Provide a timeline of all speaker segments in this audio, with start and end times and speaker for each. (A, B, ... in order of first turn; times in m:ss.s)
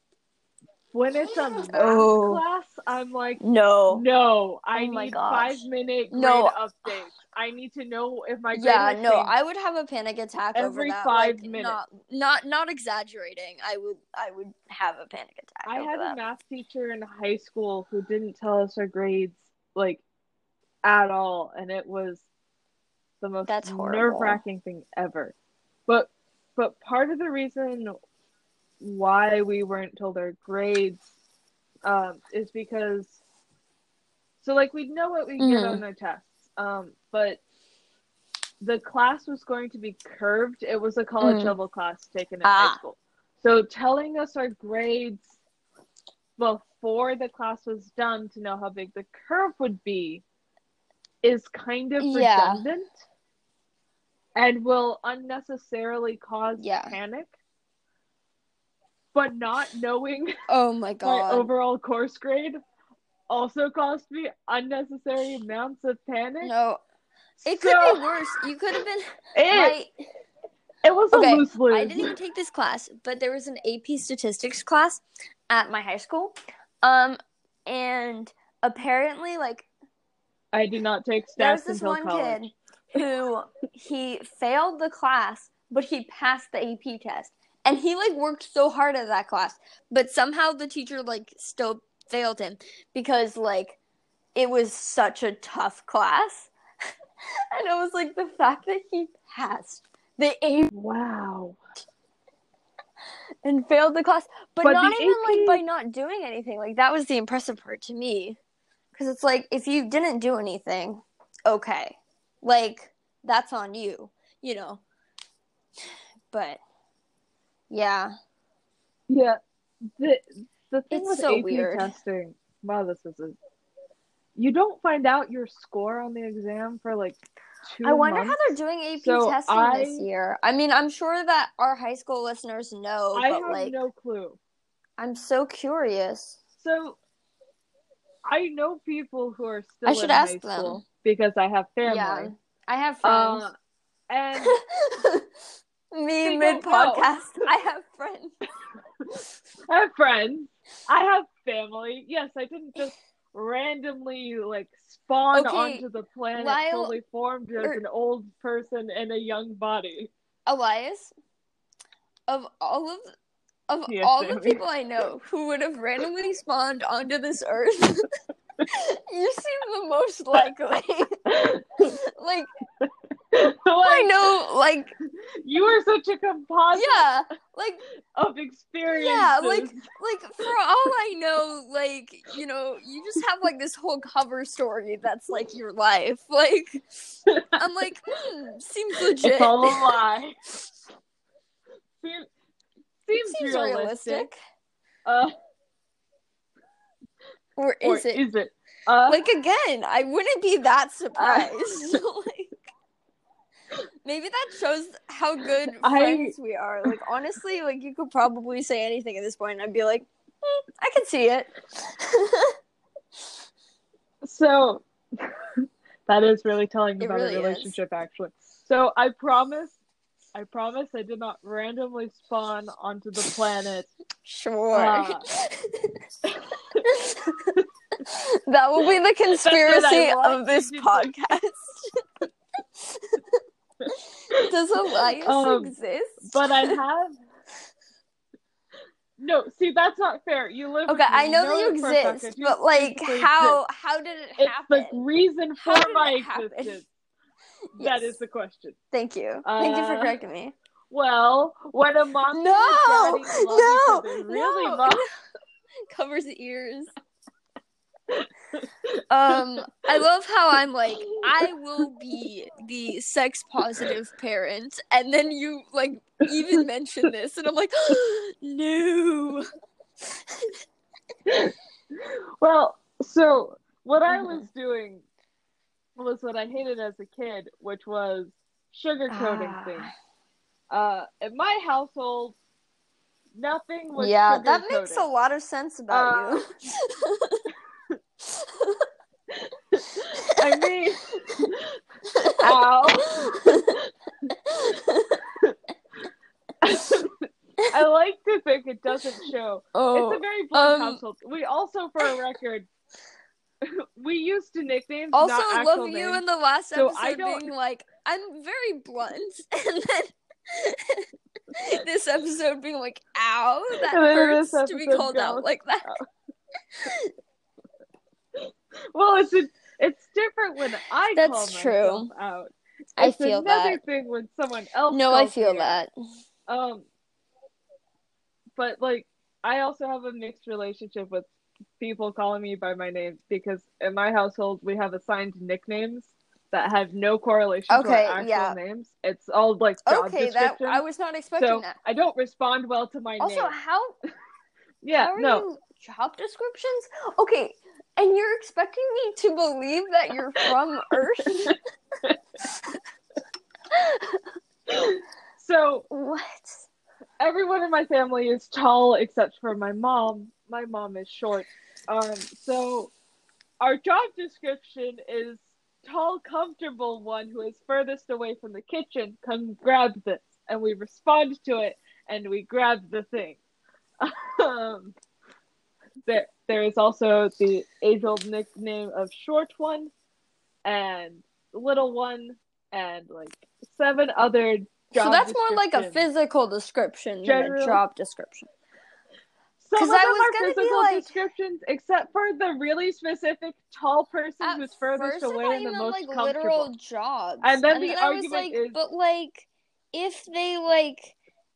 0:00.9-0:09.3 A
0:01.7-0:02.4 B
0:03.4-0:04.0 B
0:04.7-0:05.6 B
0:06.1-0:06.5 B
0:08.5-0:16.2 B
0:10.6-0:11.8 A
0:15.7-0:20.0 A
0:20.8-0:22.3 A
0:23.2-0:25.4 A
0:23.5-0:24.4 B
0:25.9-0:27.9 A
0:28.8-0:31.0 A
0:31.8-0:33.2 A
0:34.4-0:37.4 A
0:35.4-0:35.8 B
0:38.6-0:45.4 A
0:41.2-0:41.6 B
0:42.4-0:42.8 B
0:46.4-0:50.2 A
0:51.2-0:52.9 A
0:52.0-0:52.6 B
0:54.4-0:57.3 A
0:56.6-0:57.0 B
0:59.1-1:00.4 A
1:00.5-1:01.5 B
1:01.0-1:02.6 A
1:03.3-1:06.5 A
1:06.4-1:06.8 B
1:07.4-1:08.2 A
1:07.4-1:09.9 B
1:09.3-1:09.8 A
1:10.8-1:12.1 A
1:11.1-1:19.7 B
1:20.5-1:22.5 A
1:21.4-1:33.8 B
1:34.4-1:36.5 B
1:37.5-1:40.7 B
1:40.7-1:41.6 A
1:43.4-1:48.4 B
1:44.6-1:45.6 A
1:49.0-1:54.8 B
1:56.3-1:56.6 B
1:57.7-1:58.2 B
1:59.1-1:59.4 A
2:00.0-2:03.4 A
2:00.9-2:01.9 B
2:04.4-2:10.0 A
2:07.8-2:13.8 B
2:13.1-2:14.4 A
2:15.0-2:16.4 B
2:16.6-2:17.0 A
2:18.3-2:22.3 A
2:19.9-2:20.8 B
2:21.8-2:23.4 B
2:23.0-2:23.5 A
2:24.1-2:24.6 A
2:24.4-2:25.3 B
2:25.9-2:28.3 B
2:26.2-2:27.4 A
2:29.7-2:40.1 A
2:35.3-2:35.8 B
2:36.4-2:37.0 B
2:40.5-2:41.1 B
2:42.3-2:43.1 B
2:43.7-2:48.1 B
2:43.9-2:44.6 A
2:48.6-2:51.2 B
2:51.3-2:51.9 A
2:52.0-2:52.5 B
2:52.8-2:54.2 A
2:53.8-2:54.9 B
2:55.4-2:57.1 A
2:56.8-2:57.8 B
2:58.2-2:59.8 A
2:58.9-3:10.0 B
3:07.3-3:07.6 A
3:09.2-3:10.5 A
3:12.0-3:12.3 A
3:13.1-3:14.3 A
3:13.2-3:14.4 B
3:15.1-3:15.3 A
3:17.6-3:18.2 B
3:17.8-3:19.2 A
3:19.1-3:22.5 B
3:21.2-3:22.0 A
3:24.0-3:30.1 B
3:25.8-3:26.4 A
3:30.8-3:32.6 B
3:34.2-3:39.8 A
3:37.0-3:37.8 B
3:40.4-3:43.9 A
3:44.2-3:46.0 B
3:44.7-3:45.3 A
3:46.3-3:46.8 A
3:46.8-3:47.4 B
3:48.0-3:51.8 B
3:49.4-3:51.2 A
3:52.8-3:53.4 B
3:53.8-3:54.5 A
3:53.9-3:56.8 B
3:55.2-3:57.2 A
3:59.2-4:03.6 A
4:00.9-4:05.0 B
4:04.4-4:06.9 A
4:05.6-4:06.8 B
4:07.8-4:08.2 B
4:07.8-4:08.8 A
4:08.9-4:10.6 B
4:09.4-4:10.2 A
4:10.9-4:15.0 A
4:12.3-4:15.0 B
4:15.9-4:16.9 B
4:18.1-4:18.7 A
4:19.1-4:29.4 B
4:30.0-4:30.6 B
4:31.3-4:35.0 A
4:34.1-4:34.4 B
4:36.0-4:39.9 A
4:39.1-4:39.9 B
4:40.7-4:42.4 A
4:43.4-4:45.1 A
4:44.0-4:47.4 B
4:45.9-4:46.4 A
4:48.2-4:48.9 B
4:49.3-4:51.7 A
4:52.2-4:52.5 B
4:52.2-4:54.4 A
4:53.2-4:53.6 B
4:54.5-4:55.2 B
4:56.6-5:02.7 A
4:59.8-5:01.0 B
5:03.6-5:07.5 A
5:05.1-5:15.9 B
5:13.9-5:15.5 A
5:16.7-5:17.1 B
5:18.4-5:25.8 A
5:21.2-5:22.1 B
5:23.0-5:23.8 B
5:24.9-5:25.9 B
5:26.5-5:26.9 A
5:28.6-5:31.3 A
5:31.8-5:40.8 A
5:37.7-5:38.6 B
5:39.9-5:41.8 B
5:41.4-5:43.6 A
5:43.2-5:44.0 B
5:44.8-5:45.4 A
5:45.0-5:51.6 B
5:51.4-5:52.2 A
5:52.4-5:52.8 B
5:53.7-5:54.2 B
5:54.7-5:55.9 A
5:55.9-5:56.7 B
5:57.2-6:02.9 A
6:03.6-6:13.4 A
6:14.0-6:15.0 A
6:16.1-6:19.9 A
6:20.6-6:26.0 A
6:24.9-6:28.5 B
6:27.2-6:27.8 A
6:29.6-6:36.7 A
6:29.8-6:31.1 B
6:34.4-6:41.2 B
6:37.4-6:38.8 A